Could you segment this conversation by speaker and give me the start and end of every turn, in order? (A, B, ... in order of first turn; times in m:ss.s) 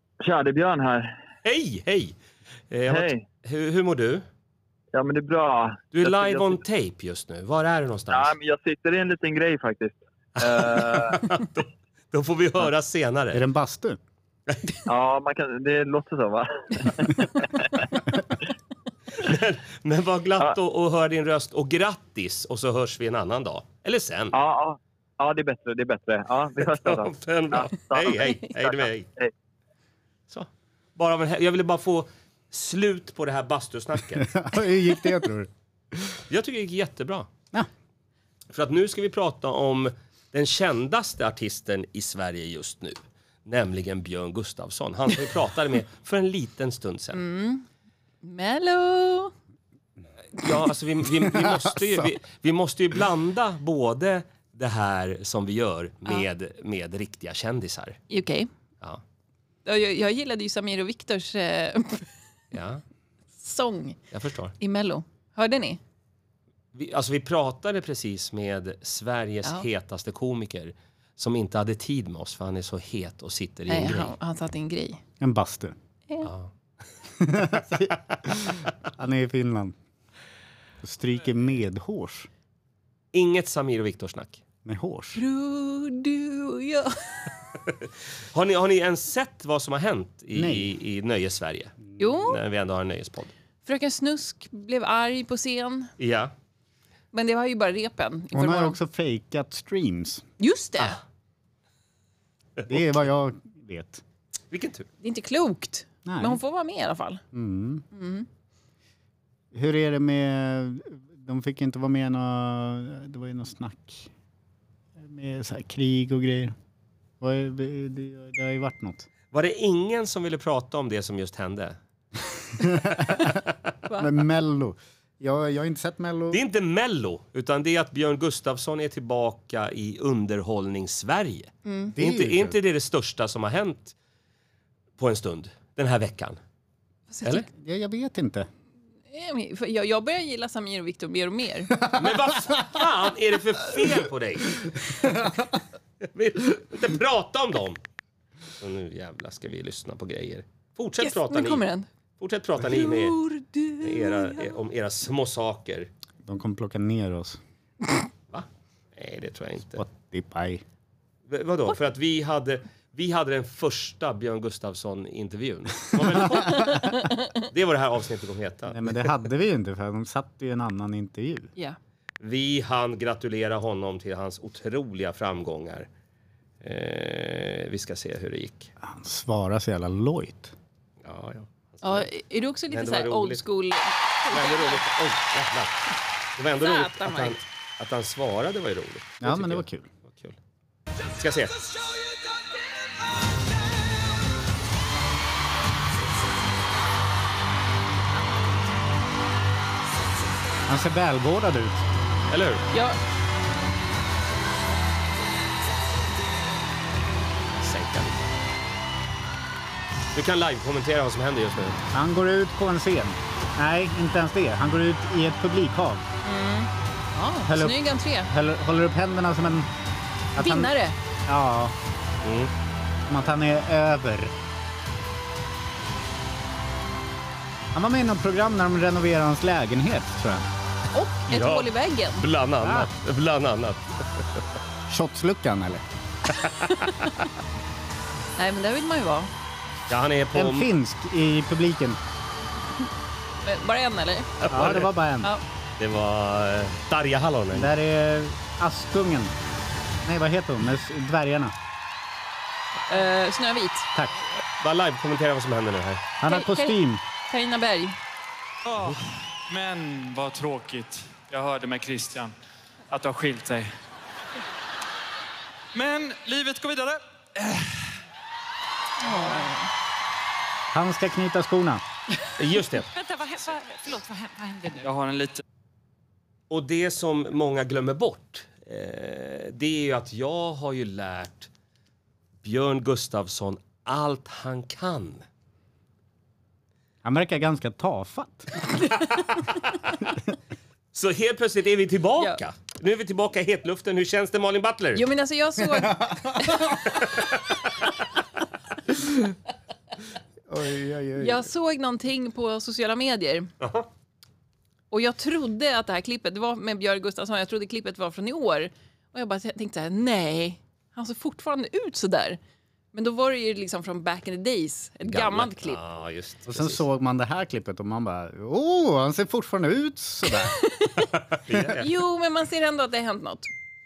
0:00.2-0:01.2 A
0:01.4-0:02.2 B
0:02.7-0:04.2 B
0:02.9-0:03.2 A
0:04.9-0:06.6 A
0:05.9-0:08.3 B
0:08.1-0:11.2 A
0:10.4-0:13.4 B
0:13.3-0:14.0 C
0:14.9-0:18.2 A
0:19.2-0:24.4 B
0:24.3-0:28.2 A
0:26.6-0:29.1 B
0:30.3-0:34.4 B
0:34.2-0:35.5 C
0:36.3-0:37.3 B
0:38.5-0:47.2 B
0:47.1-0:47.6 D
0:48.2-0:49.3 D
0:50.4-0:58.0 B
0:58.1-0:58.5 D
0:59.6-1:02.1 D
1:02.5-1:02.8 B
1:03.4-1:04.0 D
1:04.1-1:04.5 B
1:04.6-1:05.8 D
1:06.7-1:14.1 B
1:13.7-1:15.0 D
1:15.2-1:15.8 C
1:16.2-1:16.5 B
1:17.2-1:19.8 C
1:20.8-1:22.3 C
1:23.1-1:24.4 B
1:24.6-1:25.2 C
1:25.2-1:27.3 D
1:28.3-1:33.3 B
1:30.3-1:30.7 C
1:32.0-1:32.4 D
1:33.7-1:35.9 D
1:36.0-1:36.3 B
1:37.1-1:38.8 D
1:38.3-1:40.2 C
1:40.4-1:41.0 D
1:42.7-1:44.0 C
1:44.5-1:44.9 B
1:45.0-1:47.2 D
1:46.1-1:46.4 C
1:47.3-1:47.8 C
1:47.9-1:48.3 D
1:49.5-1:54.1 C
1:55.0-1:56.6 C
1:57.2-1:59.1 C
1:59.3-2:01.8 B
2:02.6-2:03.4 C
2:04.0-2:06.4 C
2:06.3-2:14.0 B
2:11.6-2:11.9 D
2:11.9-2:12.6 C
2:15.0-2:16.4 B
2:17.1-2:17.5 D
2:17.5-2:18.5 C
2:19.1-2:21.8 D
2:21.9-2:24.9 B
2:26.0-2:27.8 B
2:28.6-2:31.6 B
2:31.0-2:31.9 D
2:32.2-2:33.2 B
2:32.7-2:34.6 D
2:33.8-2:35.9 B
2:36.3-2:37.4 C
2:38.3-2:39.8 B
2:39.8-2:40.6 C
2:41.3-2:49.1 B
2:46.6-2:47.1 D
2:48.7-2:51.5 C
2:52.2-2:55.9 B
2:56.6-2:58.7 B
2:58.8-3:00.5 C
3:01.0-3:02.1 B
3:01.8-3:04.8 D
3:02.7-3:03.4 B
3:04.3-3:05.9 B
3:06.4-3:10.4 B
3:06.6-3:07.4 D
3:09.2-3:09.9 C
3:11.1-3:11.7 B
3:20.7-3:21.9 C
3:22.3-3:22.7 B
3:22.7-3:23.0 D
3:27.6-3:28.4 B
3:30.1-3:31.8 B
3:31.9-3:36.0 C
3:36.2-3:38.3 D
3:37.5-3:39.7 C
3:40.4-3:40.7 C
3:40.4-3:41.0 D
3:41.3-3:41.8 C
3:42.2-3:42.5 B
3:43.1-3:44.4 C
3:47.7-3:50.5 C
3:50.9-3:52.2 D
3:51.3-3:54.4 B
3:52.6-3:52.9 C
3:54.9-3:55.8 C
3:56.4-3:57.1 B
3:58.4-3:59.3 D
3:59.9-4:00.7 B
4:00.3-4:02.0 C
4:03.4-4:04.5 D
4:04.4-4:04.9 B
4:04.5-4:05.3 C
4:05.8-4:07.7 B
4:07.5-4:09.3 C
4:10.0-4:11.5 C
4:12.9-4:13.9 D
4:14.4-4:16.0 B
4:16.2-4:17.0 C
4:16.3-4:16.8 D
4:17.3-4:18.0 D
4:18.6-4:22.3 E
4:22.9-4:23.7 E
4:25.7-4:27.9 E
4:29.0-4:29.7 D
4:30.7-4:31.8 C
4:32.4-4:32.9 B
4:32.9-4:34.9 F
4:34.8-4:35.4 E
4:36.5-4:41.5 B
4:42.4-4:45.2 B
4:47.0-4:48.5 C
4:50.9-4:55.0 B
4:55.0-4:56.9 D
4:56.0-4:56.4 C
4:56.8-4:57.7 B
5:00.5-5:01.5 C
5:01.2-5:03.5 D
5:03.6-5:03.9 B
5:04.9-5:12.4 D
5:12.9-5:15.8 D
5:15.0-5:16.8 B
5:16.5-5:20.6 C
5:20.3-5:21.1 D
5:21.1-5:21.9 B
5:21.8-5:23.5 D